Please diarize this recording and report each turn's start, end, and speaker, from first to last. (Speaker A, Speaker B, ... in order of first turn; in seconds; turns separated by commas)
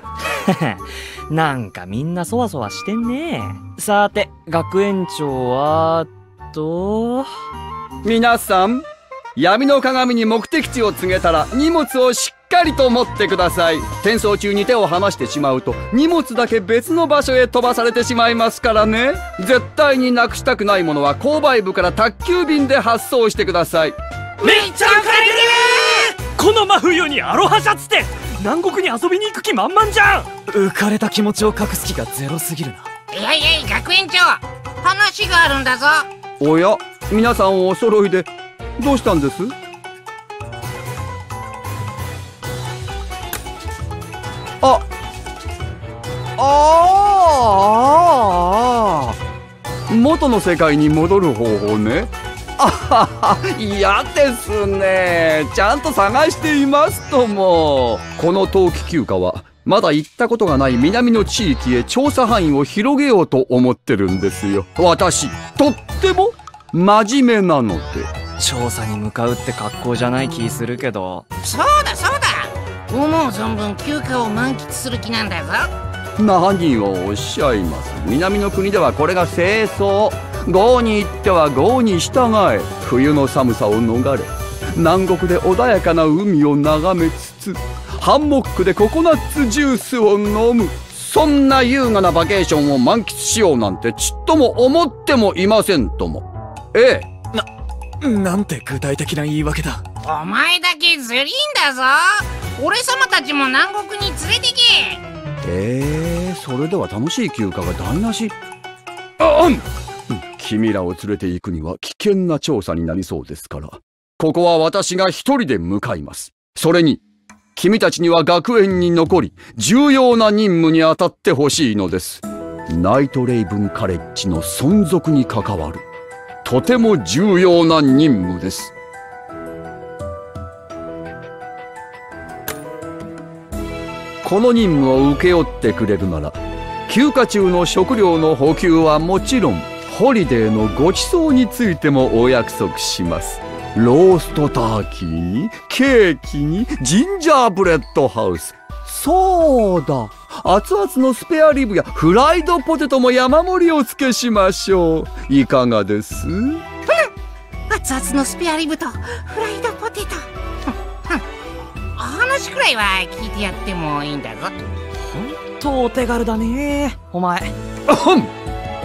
Speaker A: 0.5-7.3, Speaker B: 8.0-23.9, Speaker C: 24.4-26.1, Speaker D: 24.8-25.4, Speaker A: 26.2-28.3, Speaker D: 26.3-32.9, Speaker A: 28.8-30.3, Speaker C: 33.1-36.0, Speaker B: 36.4-39.5, Speaker B: 46.4-49.2, Speaker B: 49.9-68.1, Speaker A: 68.4-71.2, Speaker C: 71.4-75.7, Speaker B: 76.2-97.1, Speaker D: 98.0-99.8, Speaker C: 100.0-105.0, Speaker B: 105.4-108.3, Speaker B: 109.2-117.0, Speaker B: 117.5-125.8, Speaker B: 126.4-128.7, Speaker B: 134.2-156.6, Speaker C: 157.7-161.2, Speaker C: 161.9-164.5, Speaker A: 165.0-167.5, Speaker B: 167.9-168.3